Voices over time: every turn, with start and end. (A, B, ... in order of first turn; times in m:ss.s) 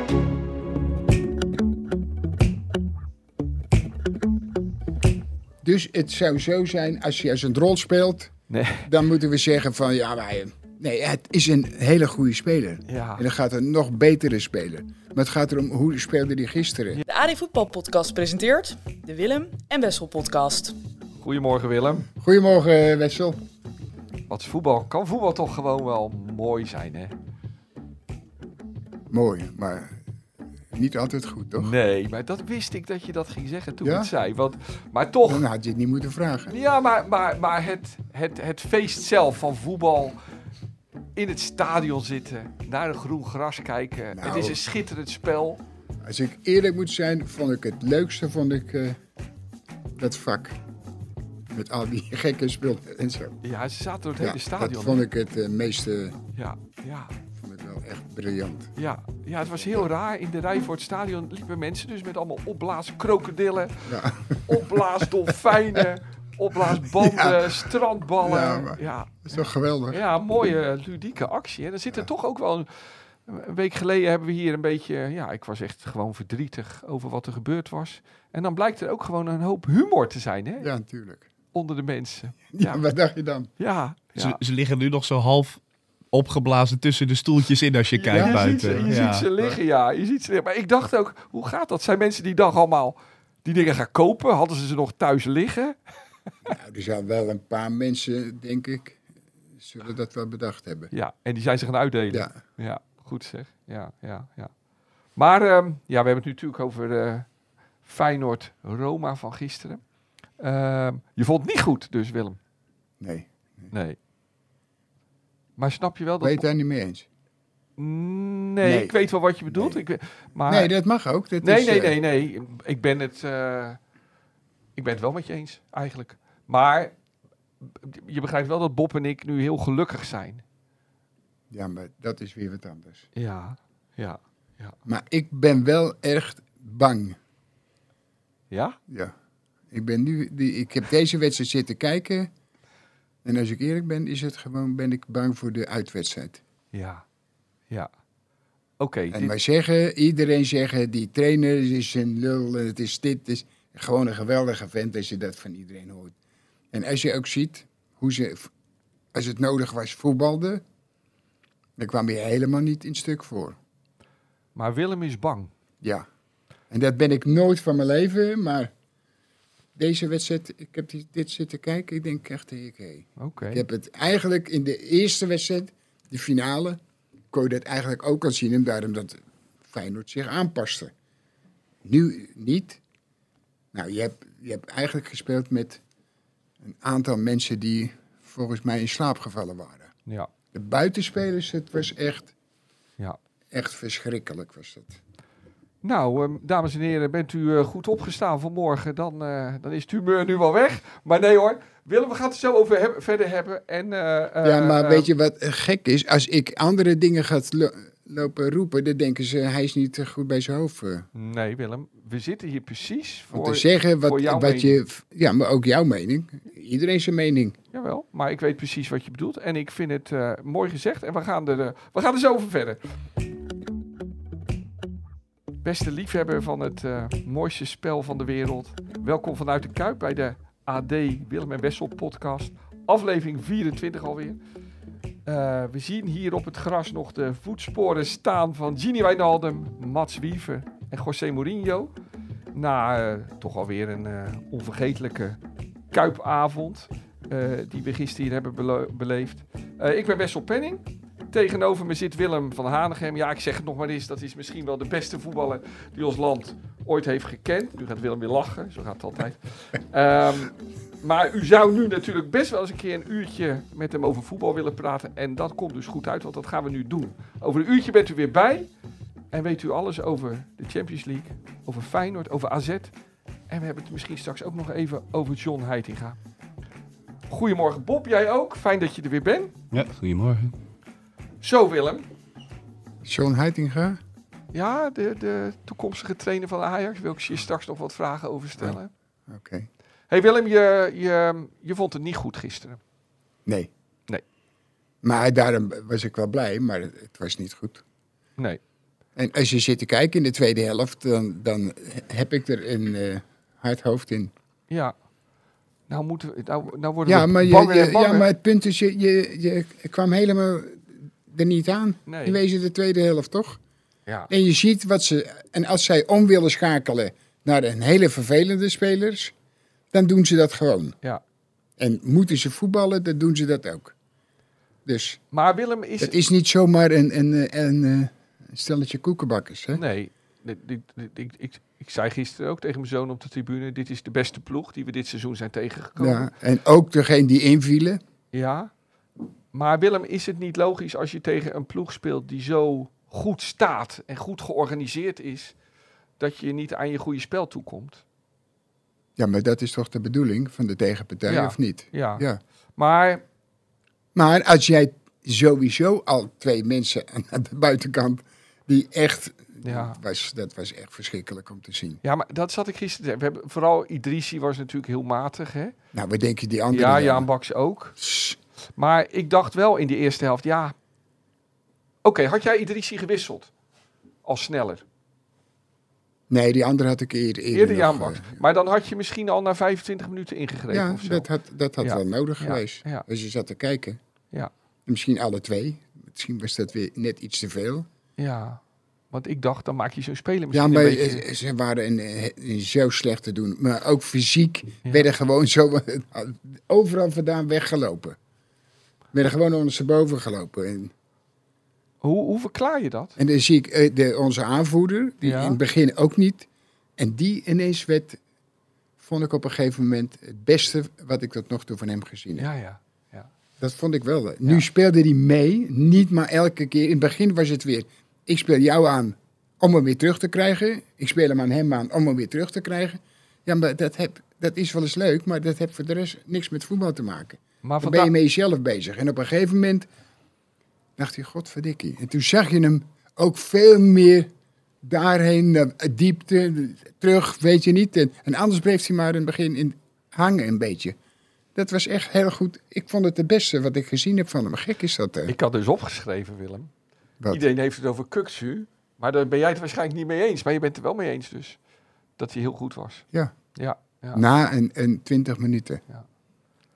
0:05.6-0:17.0 A
0:08.5-0:08.9 B
0:12.9-0:13.2 B
0:17.1-0:20.8 C
0:21.2-0:22.1 B
0:22.2-0:23.4 A
0:24.3-0:27.1 B
0:29.1-0:30.0 A
0:30.7-0:31.7 A
0:31.6-0:35.5 B
0:33.8-0:34.1 A
0:35.2-0:36.5 A
0:36.5-0:40.2 B
0:41.2-0:45.6 B
0:44.1-0:44.6 A
0:46.0-0:49.0 A
0:49.9-0:50.6 A
0:51.5-0:53.4 A
0:53.4-0:55.0 B
0:54.2-0:56.2 A
0:56.4-0:57.1 B
0:57.4-0:58.7 A
0:58.8-1:03.9 B
0:59.6-0:59.9 A
1:03.9-1:05.8 A
1:04.5-1:09.2 B
1:06.6-1:10.0 A
1:09.9-1:12.7 B
1:13.3-1:20.7 B
1:20.6-1:21.3 A
1:21.5-1:22.8 B
1:22.5-1:23.5 A
1:23.6-1:24.4 B
1:24.2-1:25.6 D
1:26.1-1:29.6 D
1:28.0-1:35.8 B
1:28.1-1:28.9 A
1:36.4-1:39.0 A
1:39.6-1:40.9 A
1:40.9-1:44.5 B
1:45.2-1:47.3 B
1:47.8-1:49.8 B
1:50.4-1:52.4 B
1:53.0-1:53.7 A
1:53.7-1:54.0 B
1:55.6-1:56.4 B
1:56.2-1:57.1 A
1:57.8-2:00.7 B
1:58.6-1:59.0 A
1:59.5-1:59.8 A
2:00.5-2:02.0 A
2:01.4-2:03.8 B
2:04.8-2:06.9 B
2:07.6-2:10.4 B
2:11.5-2:13.1 A
2:13.2-2:14.8 B
2:14.8-2:17.2 A
2:18.5-2:18.8 B
2:18.9-2:19.1 A
2:19.7-2:22.3 A
2:23.2-2:26.4 A
2:26.7-2:27.0 B
2:28.8-2:29.3 B
2:29.1-2:36.2 A
2:36.7-2:38.5 A
2:39.1-2:40.6 A
2:41.8-2:43.6 A
2:44.6-2:45.5 B
2:45.8-2:46.1 A
2:46.7-2:48.7 A
2:49.8-2:56.8 A
2:53.2-2:53.6 B
2:57.3-3:00.9 A
3:01.8-3:02.8 A
3:03.7-3:05.8 A
3:06.6-3:09.9 A
3:10.5-3:12.3 A
3:13.5-3:15.0 A
3:15.8-3:25.1 B
3:24.4-3:31.1 A
3:31.1-3:34.8 B
3:33.3-3:37.6 A
3:37.7-3:42.8 B
3:45.6-3:54.4 B
3:55.3-4:01.9 B
4:02.5-4:05.4 B
4:05.9-4:28.7 B
4:29.3-4:32.9 B
4:33.5-4:36.2 B
4:37.3-4:39.5 B
4:39.7-4:40.6 D
4:41.4-4:42.1 B
4:43.0-4:44.0 A
4:44.5-4:48.9 B
4:49.3-4:49.7 A
4:50.1-4:52.8 B
4:53.5-4:53.7 A
4:55.0-4:57.8 A
4:59.2-5:04.3 A
5:04.7-5:05.0 B
5:05.9-5:08.3 B
5:07.0-5:13.6 A
5:12.1-5:12.4 B
5:14.3-5:19.3 A
5:19.9-5:21.0 A
5:21.8-5:23.9 A
5:24.9-5:25.2 A
5:25.3-5:26.2 B
5:26.0-5:29.8 A
5:29.8-5:36.3 B
5:36.0-5:38.0 A
5:38.3-5:38.7 B
5:39.5-5:45.5 B
5:46.2-5:48.0 B
5:49.2-5:52.4 A
5:51.3-5:52.2 B
5:52.8-5:53.2 B
5:54.2-6:02.0 A
5:59.6-6:00.0 B
6:02.0-6:05.7 B
6:05.9-6:07.3 A
6:06.7-6:08.0 B
6:08.0-6:08.4 A
6:08.8-6:10.7 B
6:12.0-6:13.5 B
6:14.3-6:14.8 B
6:16.3-6:18.4 A
6:17.5-6:21.3 B
6:20.7-6:24.0 A
6:21.8-6:23.1 B
6:24.9-6:27.9 A
6:28.2-6:28.6 B
6:29.1-6:31.2 B
6:30.5-6:38.2 A
6:39.1-6:40.9 A
6:42.0-6:43.2 B
6:43.2-6:46.5 A
6:45.2-6:45.6 B
6:47.0-6:48.2 A
6:49.0-6:52.5 A
6:52.4-6:53.3 B
6:53.6-7:09.9 A
7:07.6-7:08.1 B
7:11.0-7:14.3 A
7:14.8-7:21.0 A
7:21.6-7:25.4 A
7:25.3-7:26.7 B
7:27.3-7:31.6 B
7:32.2-7:33.0 B
7:33.6-7:34.2 B
7:34.1-7:35.8 A